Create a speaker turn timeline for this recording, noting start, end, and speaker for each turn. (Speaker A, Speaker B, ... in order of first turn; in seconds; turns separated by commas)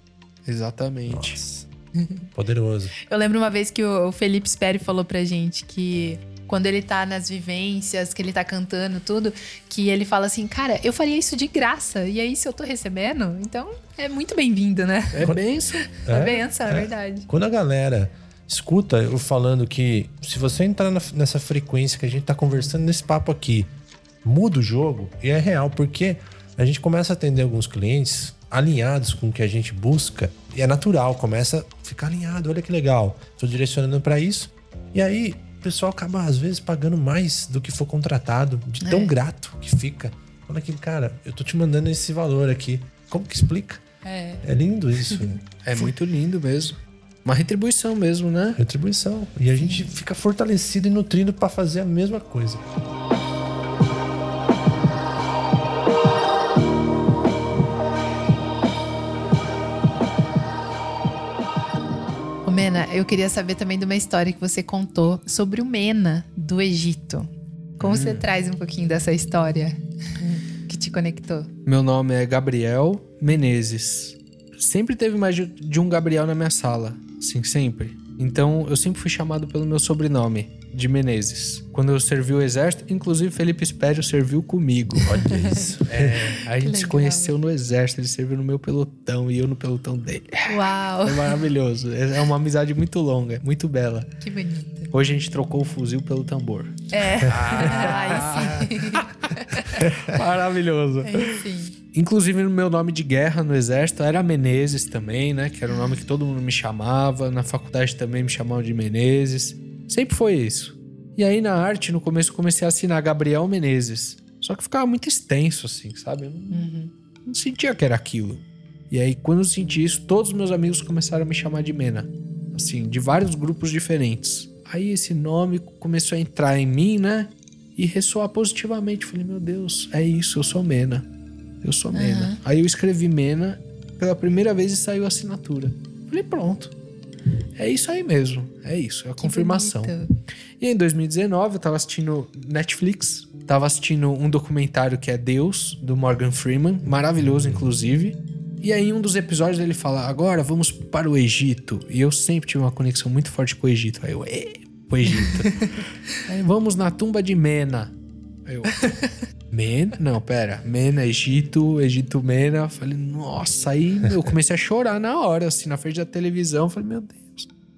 Speaker A: 0.4-1.4, Speaker B: 1.1-1.7, Speaker C: 1.9-2.3, Speaker B: 2.3-2.9, Speaker C: 3.0-15.3, Speaker A: 15.1-15.9, Speaker C: 15.8-17.3, Speaker B: 16.1-23.7, Speaker B: 24.2-43.8, Speaker C: 38.8-39.1, Speaker C: 44.0-44.4, Speaker B: 44.4-45.9, Speaker A: 45.6-48.6, Speaker B: 48.5-52.7, Speaker C: 49.6-49.9, Speaker C: 62.4-71.5, Speaker A: 67.8-68.2, Speaker A: 71.6-85.2, Speaker C: 85.0-85.7, Speaker B: 85.0-86.3, Speaker A: 85.8-94.1, Speaker C: 86.2-87.3, Speaker C: 90.5-91.4, Speaker C: 94.2-94.9, Speaker A: 94.9-116.6, Speaker C: 96.9-99.7, Speaker B: 97.5-98.0, Speaker C: 101.0-101.7, Speaker C: 105.7-106.0, Speaker C: 116.5-116.9, Speaker A: 117.2-131.1, Speaker A: 131.6-136.7, Speaker C: 131.9-132.4, Speaker A: 137.6-139.9, Speaker C: 139.2-140.1, Speaker A: 140.6-155.6, Speaker C: 155.1-155.7, Speaker A: 156.2-157.9, Speaker A: 158.4-158.9, Speaker C: 158.7-159.1, Speaker A: 159.5-167.5